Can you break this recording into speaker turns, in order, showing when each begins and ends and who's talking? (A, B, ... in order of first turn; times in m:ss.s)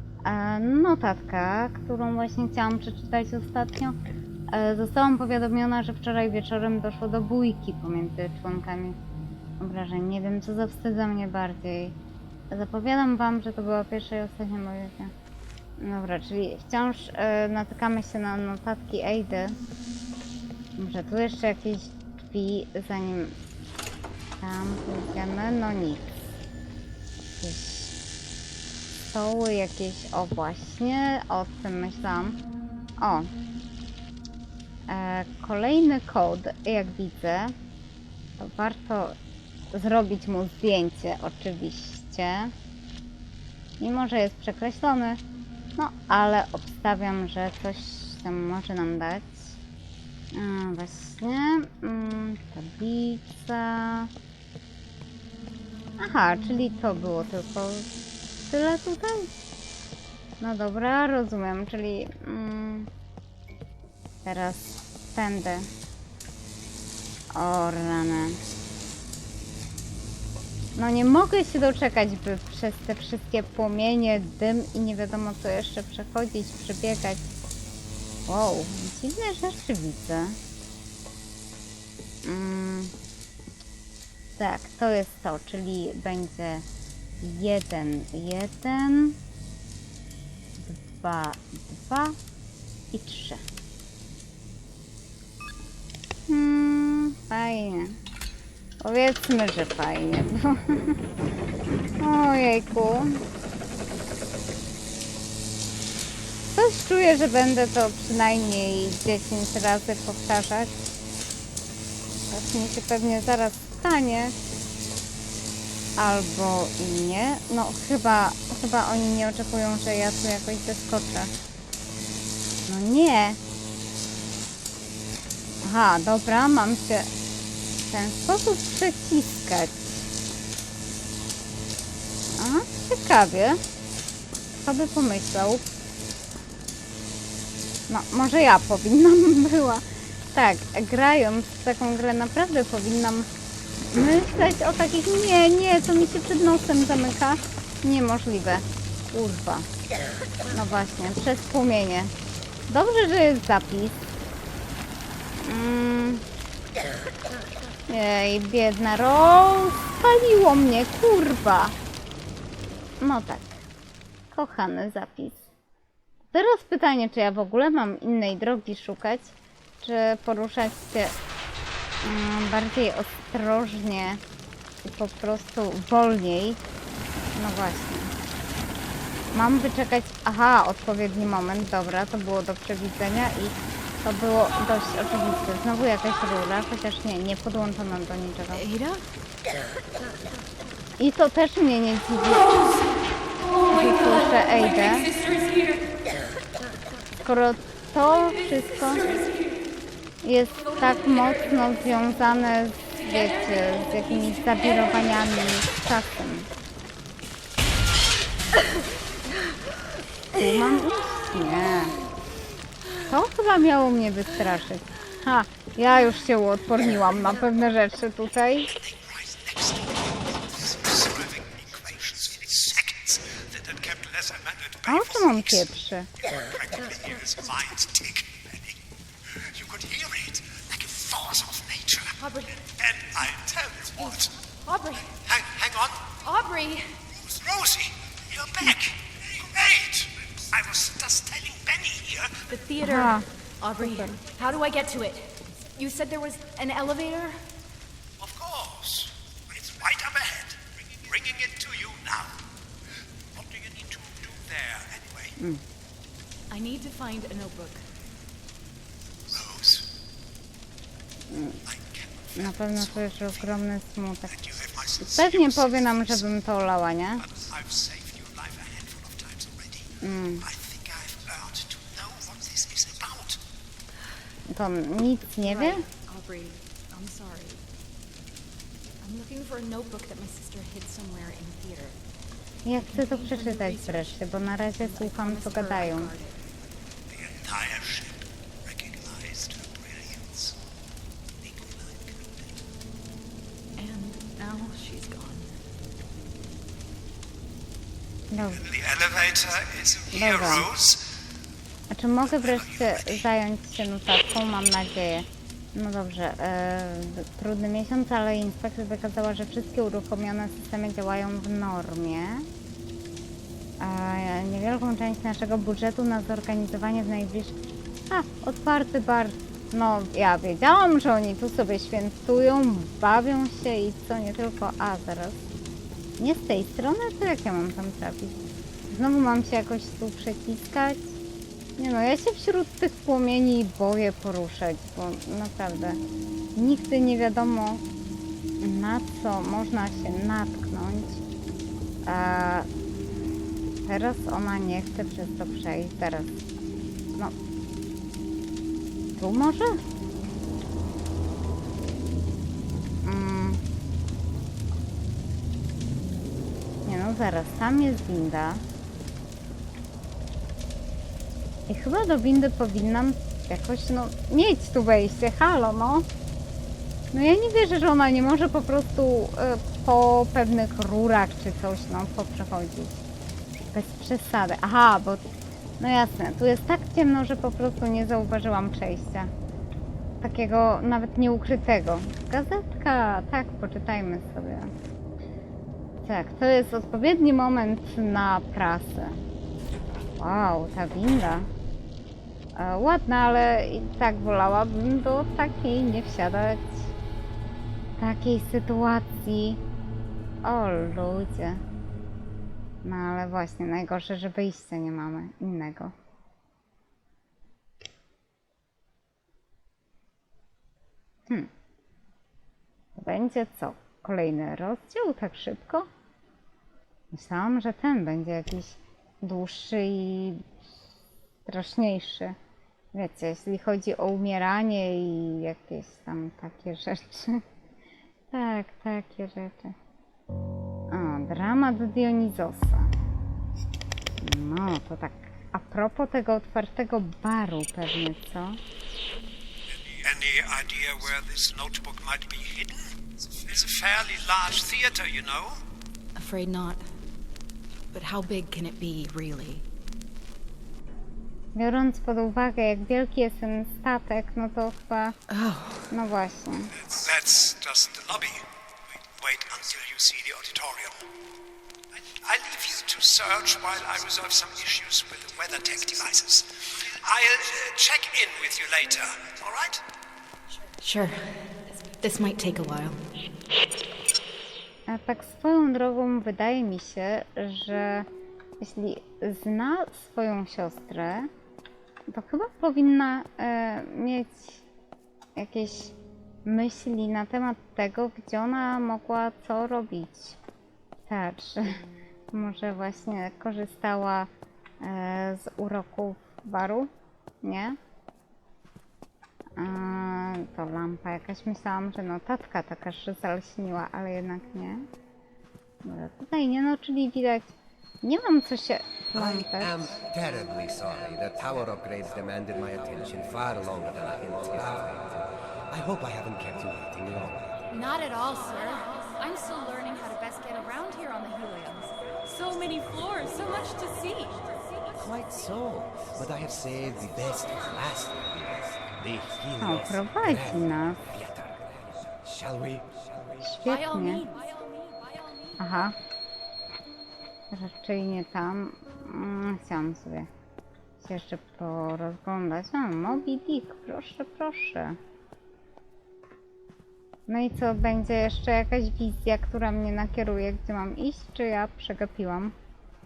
0:00.2-0:04.0 A
0:04.5-0:09.0 A
0:09.6-0:12.0 A
0:12.5-0:15.1 A
0:15.8-0:19.6 A
0:20.8-0:23.3 A
0:24.4-0:26.3 A
0:27.4-0:27.9 A
0:29.1-0:32.4 A
0:33.0-0:33.3 A
0:34.9-0:37.5 A
0:38.4-0:39.2 A
0:39.7-0:42.5 A
0:43.8-0:45.2 A
0:45.8-0:49.5 A
0:50.3-0:54.1 A
0:56.0-0:57.9 A
0:58.5-0:59.3 A
1:00.4-1:02.9 A
1:04.2-1:05.7 A
1:07.3-1:08.4 A
1:10.8-1:17.2 A
1:18.3-1:20.4 A
1:22.2-1:22.9 A
1:24.4-1:26.6 A
1:27.2-1:29.2 A
1:30.6-1:32.2 A
1:32.9-1:33.4 A
1:36.3-1:38.0 A
1:38.8-1:41.0 A
1:42.0-1:43.2 A
1:46.5-1:50.7 A
1:52.3-1:54.3 A
1:56.0-2:01.3 A
2:02.7-2:03.4 A
2:05.6-2:07.1 A
2:07.8-2:10.0 A
2:12.4-2:13.6 A
2:14.6-2:15.6 A
2:17.9-2:23.3 A
2:23.9-2:29.7 A
2:30.5-2:32.1 A
2:32.7-2:34.1 A
2:35.4-2:36.2 A
2:37.9-2:41.8 A
2:43.0-2:43.6 A
2:44.3-2:45.5 A
2:46.3-2:51.1 A
2:52.0-2:54.2 A
2:54.8-2:56.6 A
2:57.4-2:58.1 A
2:59.3-3:08.6 A
3:08.5-3:09.0 B
3:11.0-3:12.7 A
3:13.6-3:15.2 A
3:17.2-3:19.2 A
3:20.2-3:26.5 A
3:30.3-3:32.0 A
3:33.0-3:38.7 A
3:38.7-3:54.4 C
3:44.8-3:46.1 A
3:52.2-3:52.4 B
3:54.6-3:55.1 B
3:55.2-3:56.1 C
3:56.2-3:57.0 B
3:57.1-4:02.4 C
4:02.5-4:07.4 B
4:02.8-4:03.3 A
4:03.8-4:04.2 A
4:08.2-4:12.4 C
4:13.3-4:15.4 C
4:16.5-4:17.8 B
4:19.3-4:19.9 C
4:21.3-4:21.6 A
4:21.6-4:23.6 C
4:22.4-4:24.3 A
4:24.3-4:26.3 C
4:25.0-4:27.2 A
4:27.2-4:33.4 C
4:30.0-4:30.5 A
4:34.5-4:35.8 A
4:35.4-4:37.6 B
4:39.0-4:42.0 B
4:42.6-4:46.1 A
4:42.8-4:46.4 B
4:47.1-4:50.6 C
4:51.4-4:52.6 C
4:53.8-4:55.5 B
4:58.3-4:58.6 A
4:58.6-5:01.0 C
5:00.1-5:00.7 A
5:01.9-5:12.5 A
5:02.3-5:03.2 C
5:13.8-5:25.4 A
5:26.2-5:31.2 A
5:31.8-5:36.0 A
5:36.6-5:37.8 A
5:38.6-5:41.2 A
5:42.0-5:42.7 A
5:43.8-5:46.4 A
5:49.2-5:49.8 A
5:53.0-5:53.6 A
5:56.8-5:58.6 A
6:01.7-6:06.0 A
6:07.1-6:13.0 A
6:13.7-6:19.3 A
6:20.2-6:24.7 A
6:26.0-6:29.2 A
6:30.2-6:31.5 A
6:32.5-6:36.9 A
6:38.0-6:39.6 A
6:40.4-6:41.6 A
6:42.8-6:45.9 A
6:53.0-6:55.9 A
6:57.1-7:00.4 A
7:01.4-7:02.4 A
7:02.9-7:07.4 A
7:08.3-7:09.7 A
7:10.9-7:12.9 A
7:14.2-7:18.6 A
7:20.0-7:25.6 C
7:26.2-7:26.8 B
7:27.9-7:29.6 B
7:31.5-7:35.2 A
7:35.3-7:35.9 B
7:35.9-7:36.7 A
7:36.8-7:38.4 C
7:39.1-7:41.0 C
7:42.0-7:49.8 C
7:50.8-7:53.0 B
7:54.9-7:58.1 A
7:58.6-8:01.3 A
8:02.1-8:04.6 A
8:05.4-8:10.4 A
8:11.1-8:11.8 A
8:12.3-8:14.3 A
8:14.8-8:16.9 A
8:17.4-8:17.8 A
8:19.6-8:24.8 A
8:25.8-8:29.9 A
8:29.1-8:37.6 D
8:37.7-8:44.8 E
8:44.9-8:53.4 D
8:49.6-8:51.0 A
8:53.4-8:54.3 A
8:53.6-8:55.9 E
8:55.6-8:56.0 A
8:57.5-9:00.3 A
9:01.0-9:05.0 A
9:07.3-9:12.5 A